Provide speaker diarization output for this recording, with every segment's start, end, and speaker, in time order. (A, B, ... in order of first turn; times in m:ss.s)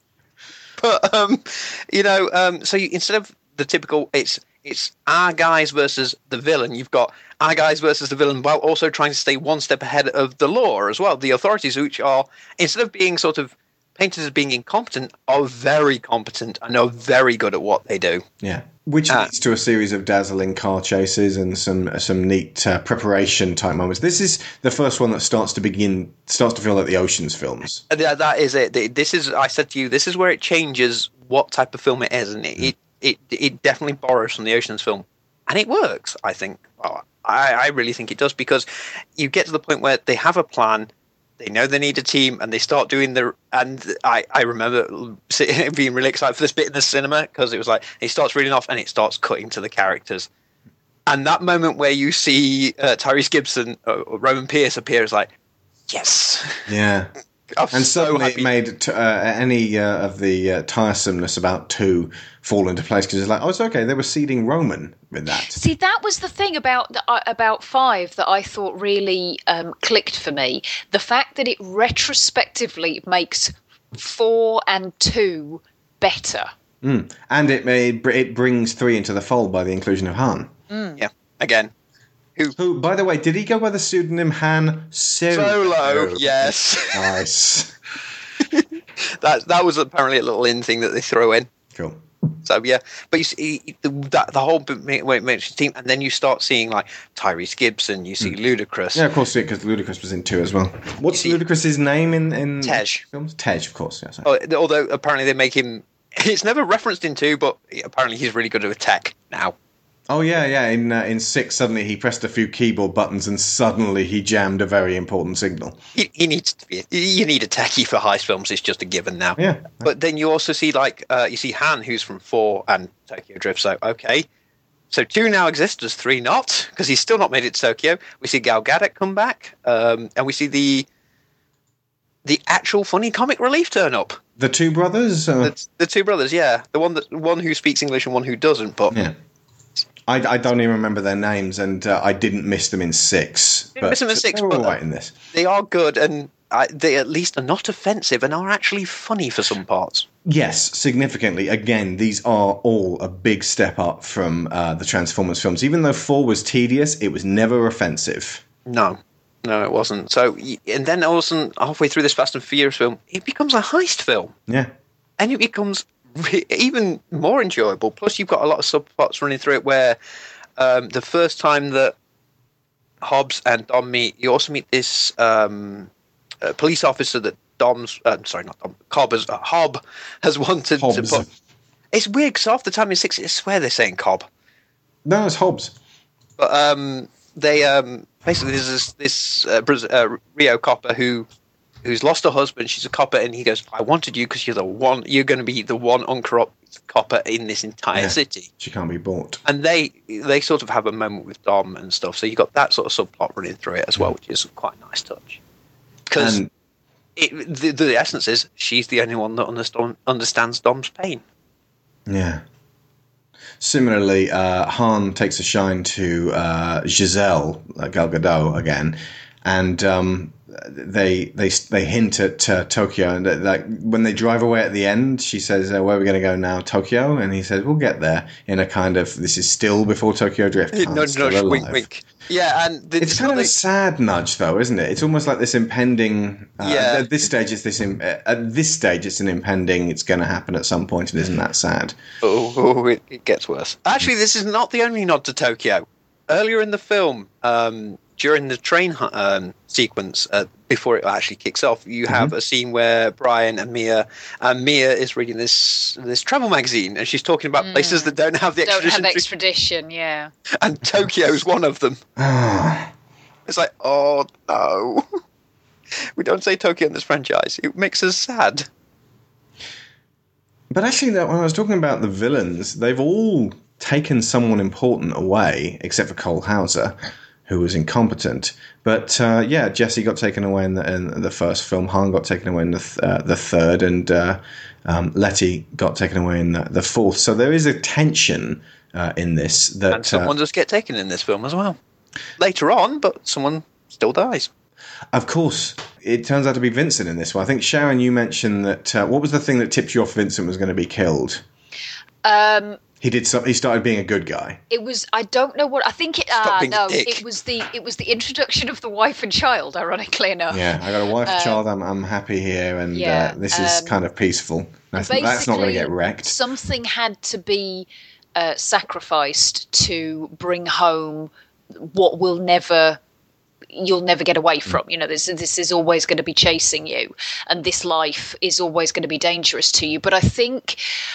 0:00.8-0:18.2 A
0:18.4-0:27.8 B
0:27.9-0:38.6 A
0:39.2-0:50.3 A
0:51.1-0:55.3 A
0:55.9-0:56.7 A
0:56.7-0:57.1 B
0:57.6-0:58.5 A
0:57.7-1:05.6 B
1:05.5-1:16.5 C
1:16.8-1:20.5 B
1:20.7-1:21.0 C
1:21.0-1:21.7 A
1:22.6-1:27.7 B
1:25.3-1:27.2 A
1:28.5-1:31.5 A
1:31.7-1:32.0 B
1:32.4-1:39.0 A
1:38.9-1:44.3 B
1:41.1-1:41.4 A
1:42.6-1:43.0 A
1:44.2-1:49.5 A
1:50.1-1:55.8 B
1:55.9-2:04.2 A
1:59.4-1:59.9 B
2:04.9-2:10.8 A
2:12.2-2:14.2 A
2:14.4-2:15.5 B
2:15.4-2:19.0 A
2:18.9-2:19.1 B
2:20.1-2:25.2 B
2:23.8-2:24.8 A
2:25.3-2:30.0 A
2:30.2-2:38.4 B
2:38.6-2:44.3 A
2:44.5-2:44.7 B
2:45.2-2:50.0 A
2:50.6-2:51.9 A
2:53.0-2:55.9 A
2:56.4-3:01.2 A
3:00.8-3:01.2 B
3:01.9-3:04.3 A
3:05.0-3:05.7 B
3:06.4-3:11.3 A
3:11.8-3:18.5 A
3:17.9-3:19.4 B
3:19.4-3:25.4 A
3:26.1-3:26.4 A
3:26.1-3:26.5 B
3:27.2-3:31.2 A
3:32.1-3:32.4 B
3:33.6-3:51.8 B
3:50.7-3:53.6 A
3:53.0-4:02.0 B
3:56.6-3:57.1 A
4:02.2-4:19.2 A
4:12.1-4:12.3 B
4:17.6-4:18.1 C
4:18.6-4:20.3 C
4:20.6-4:22.0 A
4:22.2-4:22.9 B
4:23.5-4:25.2 A
4:26.2-4:28.7 A
4:30.7-4:37.0 B
4:37.5-4:50.3 B
4:49.9-4:51.8 A
4:52.4-4:54.5 A
4:55.1-5:01.4 B
5:02.2-5:02.8 C
5:03.0-5:04.6 B
5:04.7-5:11.6 C
5:06.4-5:07.2 A
5:10.5-5:16.3 B
5:12.9-5:14.0 C
5:14.9-5:23.0 C
5:23.7-5:30.8 C